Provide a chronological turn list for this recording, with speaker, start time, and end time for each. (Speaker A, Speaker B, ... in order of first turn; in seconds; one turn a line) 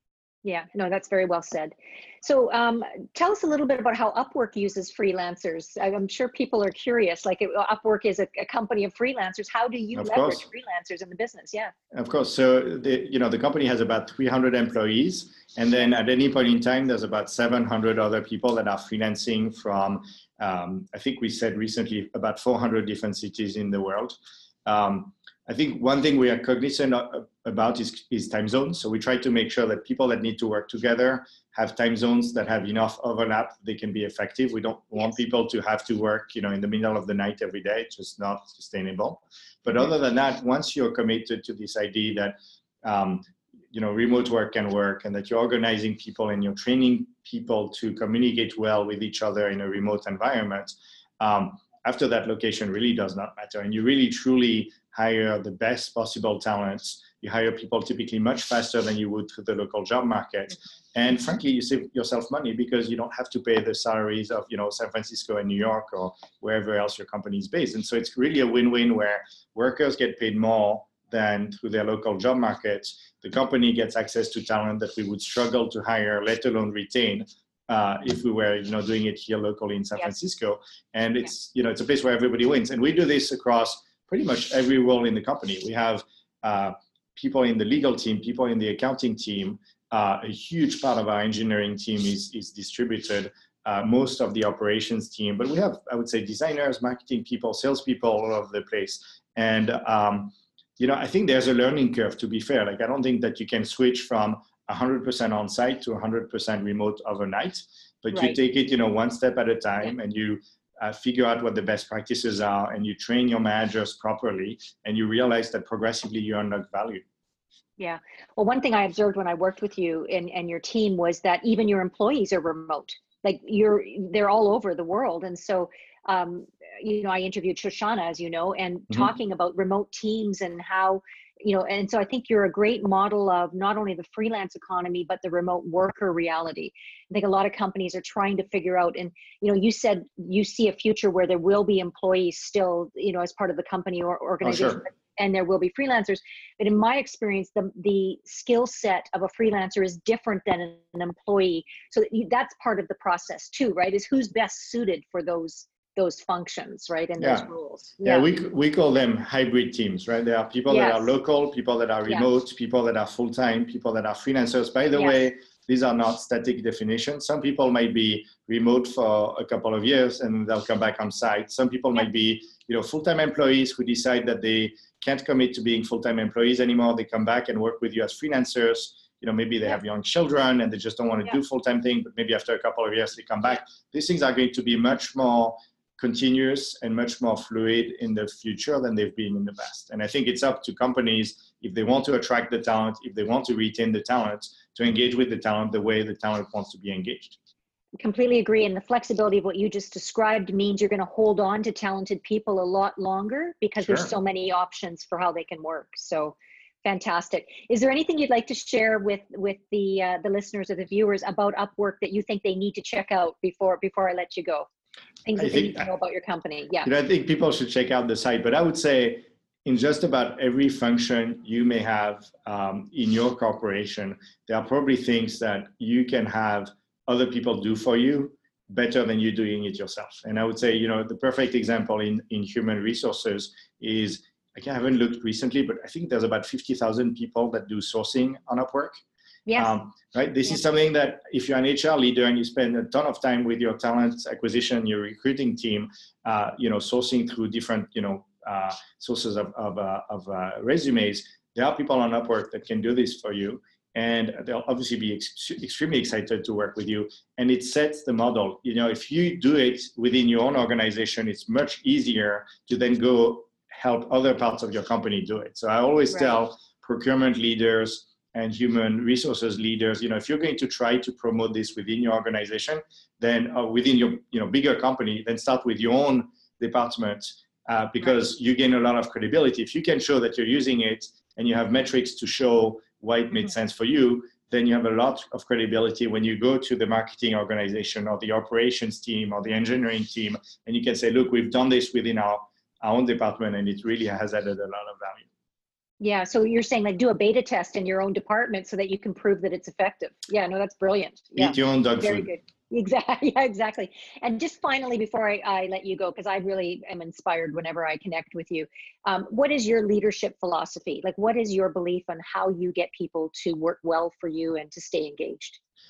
Speaker A: 0.4-11.7
Speaker B: 9.9-10.4
Speaker B: 11.9-117.0
Speaker A: 108.1-108.4
Speaker A: 117.8-158.3
Speaker B: 144.4-144.8
Speaker B: 157.2-157.5
Speaker B: 158.0-197.4
Speaker A: 160.7-161.1
Speaker A: 198.0-214.7
Speaker B: 203.8-204.1
Speaker A: 215.2-216.9
Speaker B: 215.3-215.9
Speaker B: 216.8-239.0
Speaker A: 239.5-239.7
Speaker B: 239.6-295.3
Speaker A: 296.0-315.6
Speaker B: 301.4-302.3